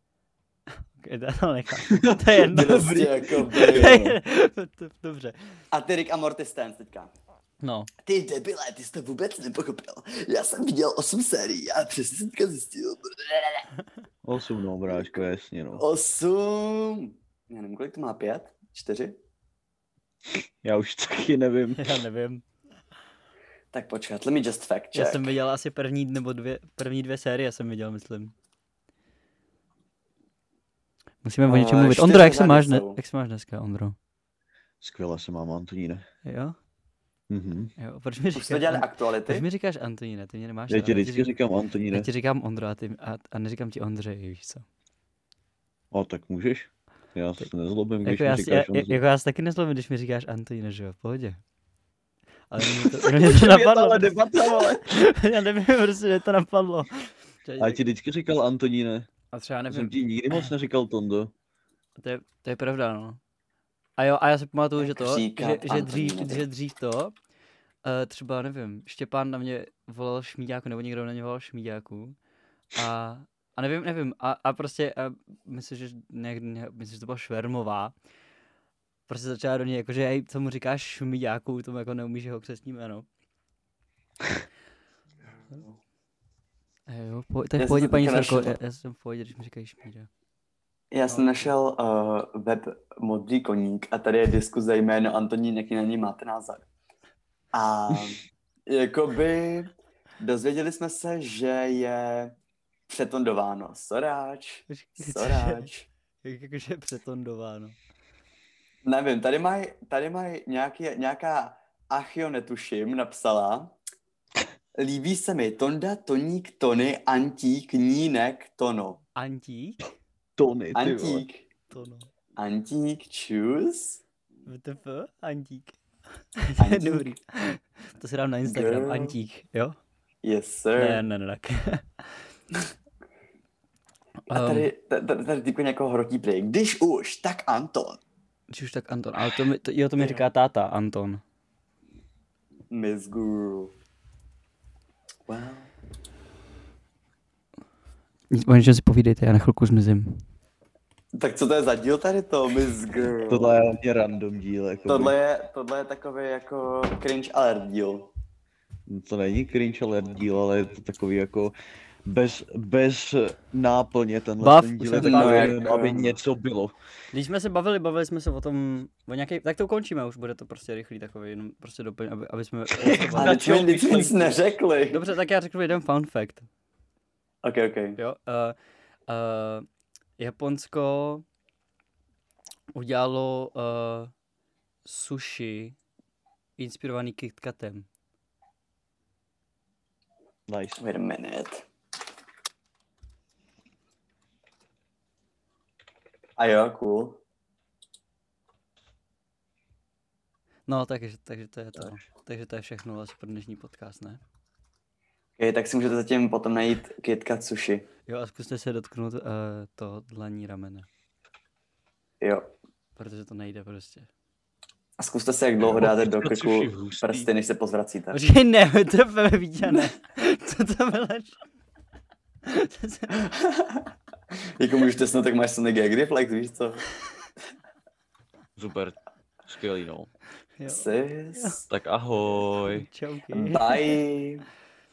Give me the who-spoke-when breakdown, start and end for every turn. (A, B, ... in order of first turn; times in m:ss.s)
0:00.9-0:05.4 A
0:01.9-0:04.1 B
0:02.5-0:04.1 C
0:05.7-0:07.1 C
0:07.6-0:07.9 A
0:08.1-0:13.6 C
0:14.2-0:15.8 B
0:15.8-0:19.2 C
0:20.6-0:21.9 B
0:21.8-0:22.4 A
0:23.7-0:25.3 C
0:24.9-0:28.3 A
0:31.2-0:33.9 A
0:31.4-0:33.0 C
0:34.8-0:36.0 B
0:36.2-0:36.6 A
0:37.3-0:37.7 B
0:37.8-0:41.3 A
0:38.3-0:39.4 C
0:40.7-0:42.1 B
0:41.9-0:44.6 A
0:45.9-0:49.0 B
0:48.0-0:51.4 A
0:52.5-0:57.8 A
0:52.7-0:54.8 B
0:57.6-0:59.1 B
0:59.3-1:00.5 A
0:59.7-1:01.3 B
1:02.0-1:03.2 A
1:04.0-1:07.2 A
1:04.8-1:06.4 C
1:07.8-1:12.2 A
1:12.7-1:17.9 A
1:19.1-1:23.1 A
1:26.9-1:30.1 A
1:27.6-1:28.6 C
1:30.9-1:36.7 C
1:31.1-1:31.5 A
1:37.5-1:42.3 C
1:42.9-1:45.9 C
1:44.7-1:45.7 A
1:46.2-1:47.8 A
1:48.8-1:53.7 C
1:54.8-1:59.0 C
1:59.2-1:59.9 A
2:00.4-2:01.2 B
2:00.7-2:01.4 C
2:01.7-2:02.1 A
2:02.4-2:04.0 C
2:04.4-2:05.8 A
2:06.4-2:09.8 A
2:06.6-2:07.1 C
2:08.5-2:09.2 C
2:10.2-2:11.0 C
2:10.8-2:12.1 A
2:14.3-2:14.7 A
2:14.3-2:18.0 C
2:18.5-2:21.2 A
2:20.0-2:20.2 C
2:22.7-2:23.7 C
2:25.3-2:25.7 C
2:28.3-2:30.2 A
2:31.2-2:33.6 C
2:33.3-2:35.1 B
2:34.9-2:38.1 C
2:38.9-2:41.6 B
2:42.1-2:46.7 B
2:44.4-2:45.9 A
2:44.9-2:46.2 C
2:47.1-2:56.5 A
2:52.9-2:53.8 B
2:53.2-2:55.0 C
2:57.4-2:58.0 C
2:58.0-2:58.6 A
2:59.1-2:59.7 A
3:00.2-3:01.2 A
3:02.7-3:04.1 A
3:04.8-3:05.8 A
3:06.6-3:07.8 A
3:10.5-3:10.8 B
3:10.8-3:11.6 C
3:16.4-3:17.2 C
3:20.7-3:24.2 A
3:25.4-3:27.8 C
3:28.1-3:30.9 A
3:32.2-3:32.4 C
3:33.0-3:34.1 A
3:35.0-3:38.2 C
3:35.6-3:37.3 B
3:38.1-3:41.4 A
3:42.4-3:43.3 A
3:43.3-3:43.9 C
3:44.6-3:46.9 C
3:48.6-3:50.1 B
3:50.6-3:51.6 A
3:50.7-3:51.6 C
3:51.7-3:52.8 B
3:52.6-3:54.0 A
3:53.3-3:54.4 C